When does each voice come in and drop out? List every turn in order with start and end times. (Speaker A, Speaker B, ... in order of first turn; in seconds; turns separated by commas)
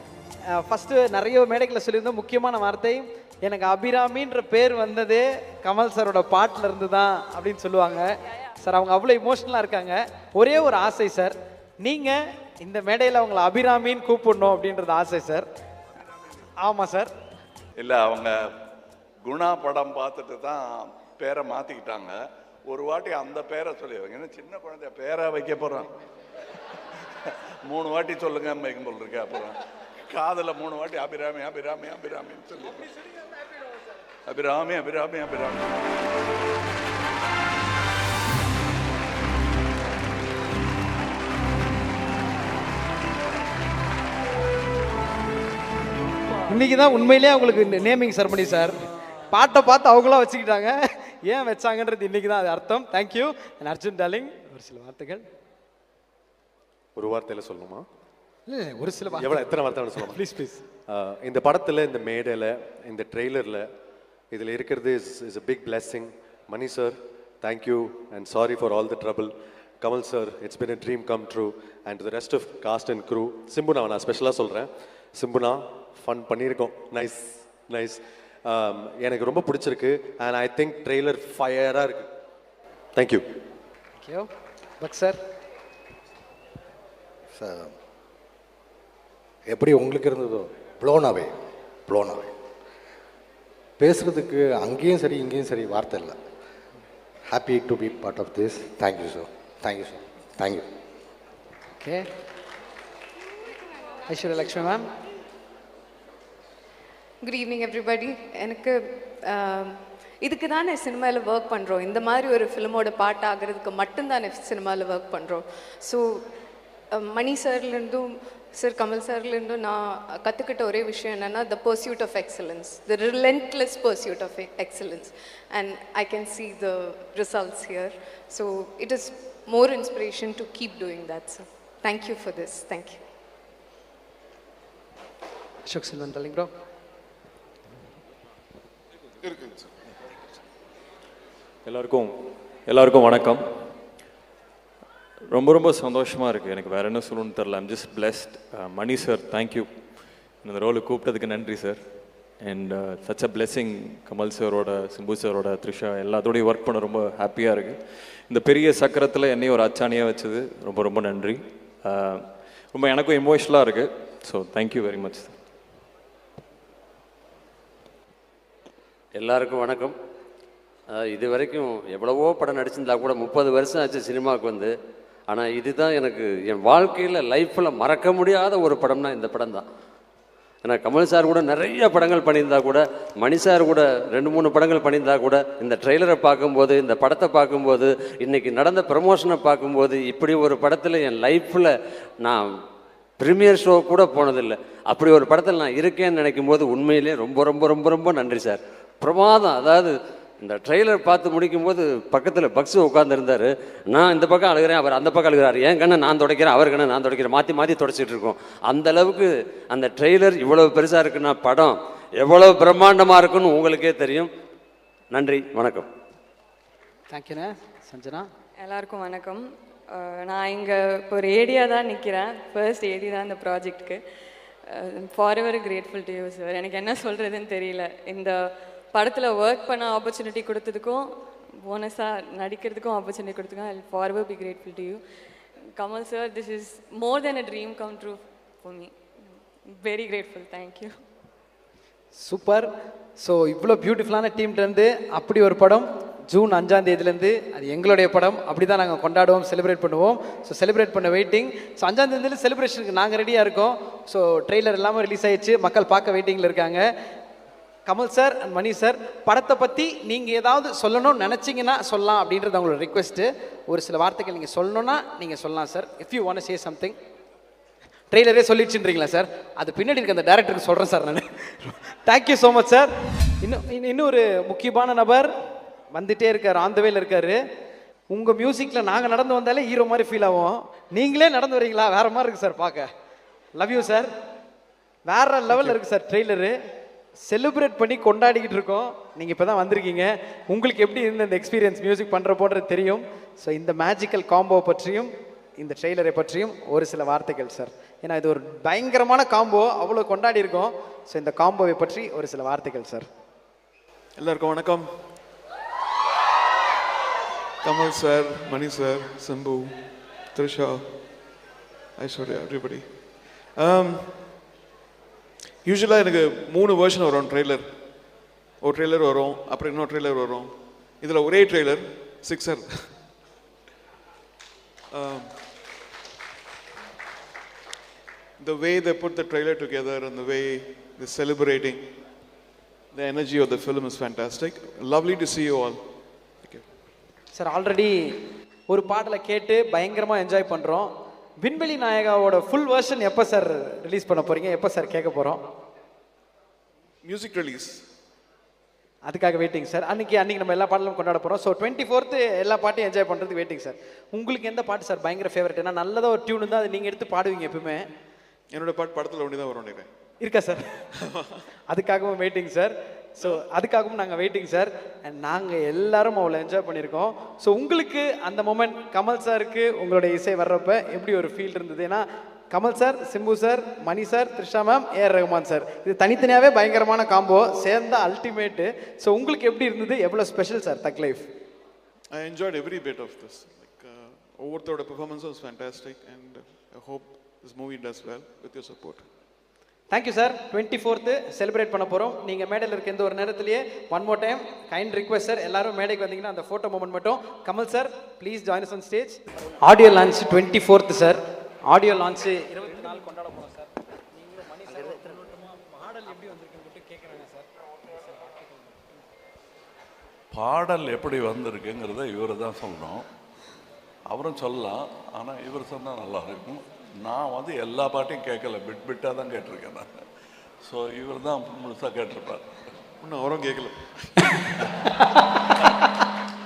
Speaker A: 0.5-15.4, Speaker A: 16.6-17.1, Speaker B: 17.8-18.4, Speaker B: 19.2-22.2, Speaker B: 22.7-25.9, Speaker B: 27.2-29.6, Speaker B: 30.1-32.9, Speaker B: 34.3-35.7, Speaker A: 46.5-48.8, Speaker A: 49.3-55.2, Speaker C: 57.0-57.9, Speaker A: 58.5-60.6, Speaker C: 59.1-60.3, Speaker C: 60.9-63.6, Speaker C: 64.3-82.1, Speaker C: 83.0-83.2, Speaker A: 84.0-84.3, Speaker A: 84.8-85.2, Speaker D: 87.4-87.7, Speaker D: 89.5-91.3, Speaker D: 91.9-92.3, Speaker D: 93.8-96.2, Speaker D: 97.3-100.6, Speaker A: 101.8-102.0, Speaker A: 104.1-104.9, Speaker E: 107.2-116.3, Speaker E: 116.9-133.0, Speaker A: 135.7-136.5, Speaker F: 139.3-139.6, Speaker G: 141.6-142.1, Speaker G: 142.7-143.4, Speaker G: 145.3-165.4, Speaker H: 169.1-169.9, Speaker H: 170.9-174.7, Speaker H: 175.3-179.6, Speaker H: 180.6-192.5, Speaker H: 193.2-214.3, Speaker H: 215.1-215.9, Speaker A: 217.1-218.3, Speaker I: 218.6-224.0, Speaker I: 224.7-228.4, Speaker I: 228.9-231.0, Speaker I: 231.6-235.0, Speaker I: 235.8-240.9, Speaker A: 242.2-242.7, Speaker A: 243.2-256.9, Speaker A: 257.9-266.9, Speaker A: 268.1-275.3, Speaker A: 275.9-277.4, Speaker A: 278.1-282.9, Speaker A: 283.6-284.1, Speaker A: 285.1-286.5, Speaker A: 287.2-303.1, Speaker F: 304.2-304.9, Speaker F: 307.6-310.9, Speaker F: 312.0-314.2, Speaker F: 315.6-317.7, Speaker F: 318.6-323.0, Speaker F: 324.9-325.4, Speaker F: 328.4-331.8, Speaker F: 332.9-335.8, Speaker A: 337.3-338.2, Speaker A: 338.7-340.9, Speaker A: 341.4-345.4, Speaker F: 347.0-347.8, Speaker A: 349.1-357.9, Speaker F: 358.5-359.9, Speaker A: 360.2-360.6, Speaker F: 361.1-361.4, Speaker A: 361.7-381.2, Speaker F: 382.1-389.1, Speaker A: 389.9-403.7, Speaker A: 404.3-407.4, Speaker B: 410.3-413.1, Speaker B: 414.1-419.9, Speaker B: 420.6-422.4, Speaker F: 423.0-424.2